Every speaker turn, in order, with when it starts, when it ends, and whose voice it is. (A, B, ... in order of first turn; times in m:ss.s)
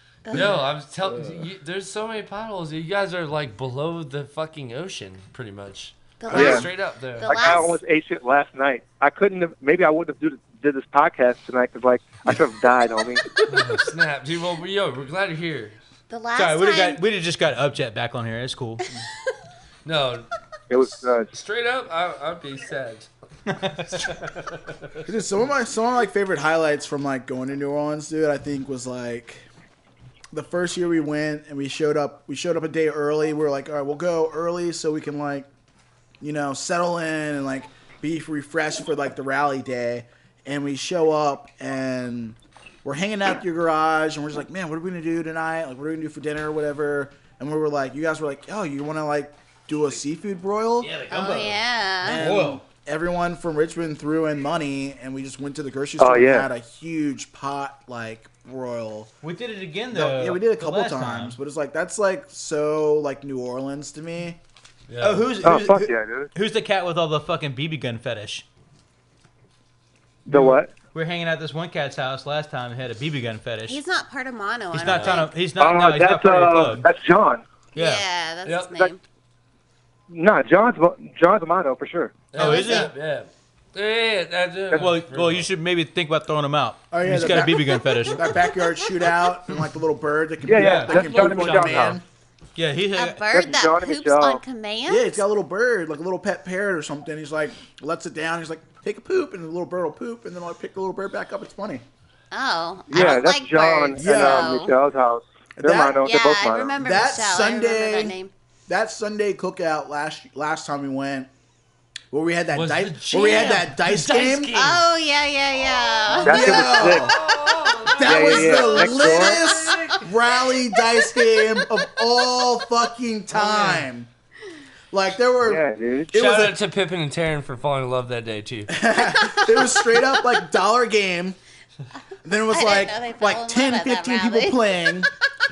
0:00.2-0:00.7 A
0:00.3-0:07.7 B
0:01.0-0:01.5 C
0:06.2-0:06.7 A
0:06.3-0:06.7 D
0:07.2-0:07.8 A
0:07.3-0:13.2 D
0:13.5-0:15.8 B
0:16.1-0:17.0 A
0:16.4-0:19.0 E
0:19.8-0:20.3 B
0:20.7-0:21.3 D
0:21.3-0:23.1 B
0:23.5-0:24.2 E
0:24.0-0:24.8 B
0:25.0-0:29.5 C
0:30.3-0:35.5 C
0:36.2-0:50.9 C
0:50.8-0:51.6 E
0:51.1-0:52.2 A
0:52.0-0:59.1 C
0:52.1-0:52.6 E
0:56.0-0:56.5 D
0:59.2-1:01.4 E
0:59.9-1:04.4 C
1:04.9-1:05.4 B
1:05.0-1:08.4 E
1:05.4-1:06.3 D
1:10.3-1:10.7 D
1:10.3-1:13.8 E
1:13.7-1:15.3 A
1:14.7-1:16.9 E
1:14.8-1:15.2 B
1:15.6-1:17.4 D
1:17.8-1:19.0 A
1:17.8-1:18.0 E
1:18.4-1:18.7 B
1:20.1-1:22.3 D
1:22.3-1:25.5 B
1:22.4-1:22.9 E
1:22.4-1:22.9 A
1:24.7-1:28.3 E
1:26.9-1:32.0 C
1:28.4-1:29.2 A
1:30.4-1:32.0 D
1:30.6-1:31.0 E
1:30.9-1:32.0 B
1:32.6-1:33.2 E
1:33.0-1:35.2 A
1:33.3-1:34.4 D
1:34.9-1:41.8 C
1:42.3-1:44.8 A
1:42.9-1:46.7 D
1:44.0-1:44.6 C
1:45.6-1:46.0 C
1:46.0-1:48.3 A
1:46.8-1:48.2 C
1:48.7-1:51.3 C
1:52.1-1:54.6 C
1:52.5-1:54.8 B
1:53.3-1:53.6 A
1:54.5-1:56.7 A
1:55.8-2:00.0 B
1:56.2-1:57.1 D
1:56.3-1:57.1 C
1:58.0-2:04.1 C
1:58.0-1:59.4 D
1:58.4-1:59.9 A
2:00.9-2:01.4 A
2:03.4-2:03.8 E
2:04.9-2:06.6 C
2:05.4-2:06.2 D
2:06.1-2:08.7 B
2:08.7-2:11.4 C
2:09.2-2:10.1 A
2:12.2-2:15.1 C
2:12.5-2:14.6 A